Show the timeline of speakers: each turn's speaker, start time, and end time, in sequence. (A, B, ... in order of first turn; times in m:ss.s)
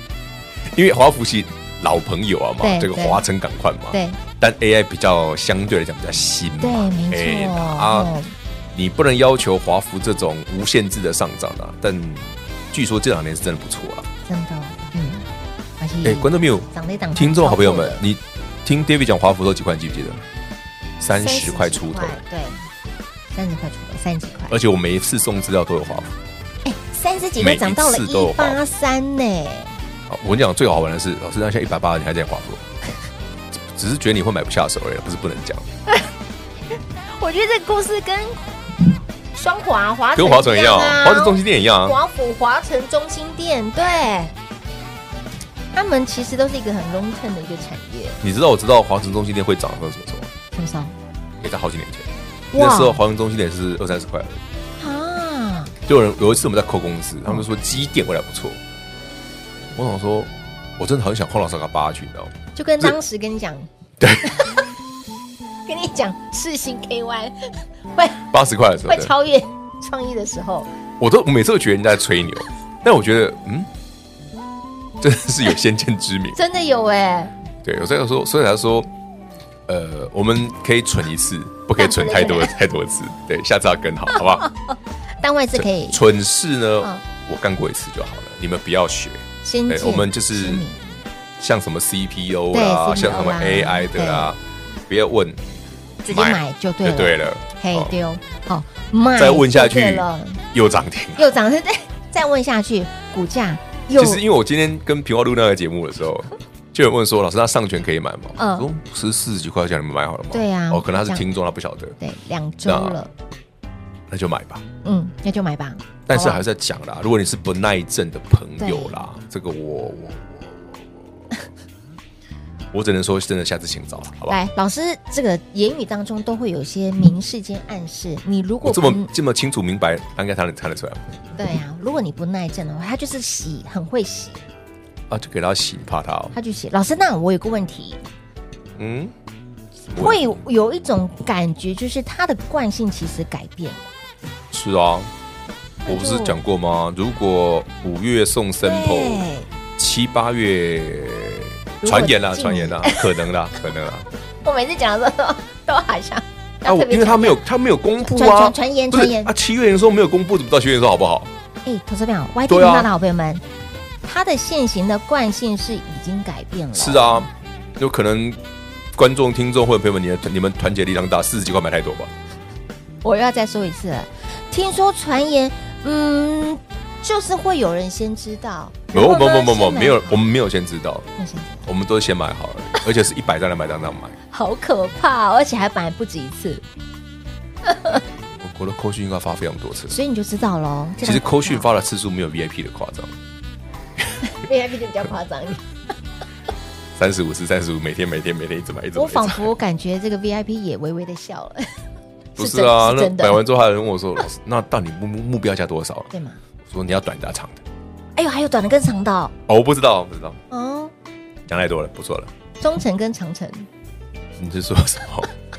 0:00.7-0:08.1 A
0:02.6-0:03.2 B
0:03.9-0:04.2 B
0:06.6-0:08.3 B
0:08.7-0:14.1 A
0:14.3-0:15.3 B
0:15.8-0:18.0 B
0:16.0-0:20.2 A
0:21.0-0:22.2 A
0:21.1-0:22.6 B
0:23.3-0:24.6 B
0:24.5-0:26.1 A
0:26.6-0:29.7 B
0:27.4-0:28.6 A
0:30.1-0:32.6 A
0:33.5-0:35.7 A
0:37.2-0:38.4 B
0:39.3-0:44.3 B
0:40.2-0:42.0 A
0:45.7-0:48.2 B
0:48.2-0:50.3 A
0:50.5-0:50.9 B
0:51.4-0:54.4 A
0:52.5-0:53.0 B
0:54.8-0:55.7 B
0:55.9-0:58.6 A
0:59.8-1:03.0 A
1:02.6-1:03.7 B
1:04.0-1:04.5 A
1:04.2-1:04.7 B
1:05.7-1:08.2 B
1:08.2-1:09.1 A
1:08.9-1:10.7 B
1:11.0-1:13.7 A
1:15.0-1:16.4 A
1:16.4-1:17.3 B
1:17.6-1:18.9 A
1:19.7-1:24.5 A
1:21.8-1:22.5 B
1:24.2-1:26.0 B
1:25.6-1:30.6 A
1:29.4-1:31.0 B
1:31.4-1:35.4 A
1:32.5-1:34.3 B
1:36.0-1:40.4 B
1:36.1-1:37.9 A
1:39.2-1:41.3 A
1:41.2-1:44.2 B
1:44.0-1:52.0 A
1:48.4-1:48.7 B
1:50.3-1:51.2 B
1:52.0-1:53.1 B
1:52.6-1:53.0 A
1:54.1-1:54.6 A
1:54.8-1:56.4 B
1:56.1-2:00.9 A
1:58.6-1:59.0 B
2:02.7-2:04.4 A
2:04.3-2:09.1 B
2:08.6-2:11.0 A
2:11.4-2:14.4 B
2:15.1-2:16.4 A
2:16.3-2:18.0 B
2:18.8-2:19.1 A
2:19.9-2:20.3 A
2:19.9-2:23.9 B
2:24.5-2:25.1 A
2:25.8-2:26.4 B
2:25.9-2:29.2 A
2:28.6-2:29.5 B
2:29.8-2:34.1 A
2:31.8-2:33.1 B
2:34.4-2:37.4 B
2:36.6-2:41.3 A
2:38.0-2:39.3 B
2:41.6-2:43.4 B
2:42.5-2:42.9 A
2:44.0-2:47.3 B
2:46.8-2:48.4 A
2:49.0-2:52.1 A
2:53.0-3:00.3 B
2:58.9-3:01.1 A
3:01.2-3:01.7 B
3:01.7-3:04.2 A
3:04.3-3:06.6 B
3:07.7-3:08.0 B
3:08.4-3:10.0 A
3:09.9-3:11.7 B
3:11.0-3:13.2 A
3:14.2-3:15.6 B
3:17.0-3:19.5 A
3:19.0-3:21.7 B
3:22.4-3:23.4 B
3:22.4-3:26.1 A
3:26.1-3:26.4 B
3:26.7-3:27.6 A
3:28.2-3:29.3 B
3:29.5-3:30.4 A
3:30.5-3:30.9 B
3:31.5-3:32.3 A
3:32.6-3:33.7 B
3:34.4-3:35.3 A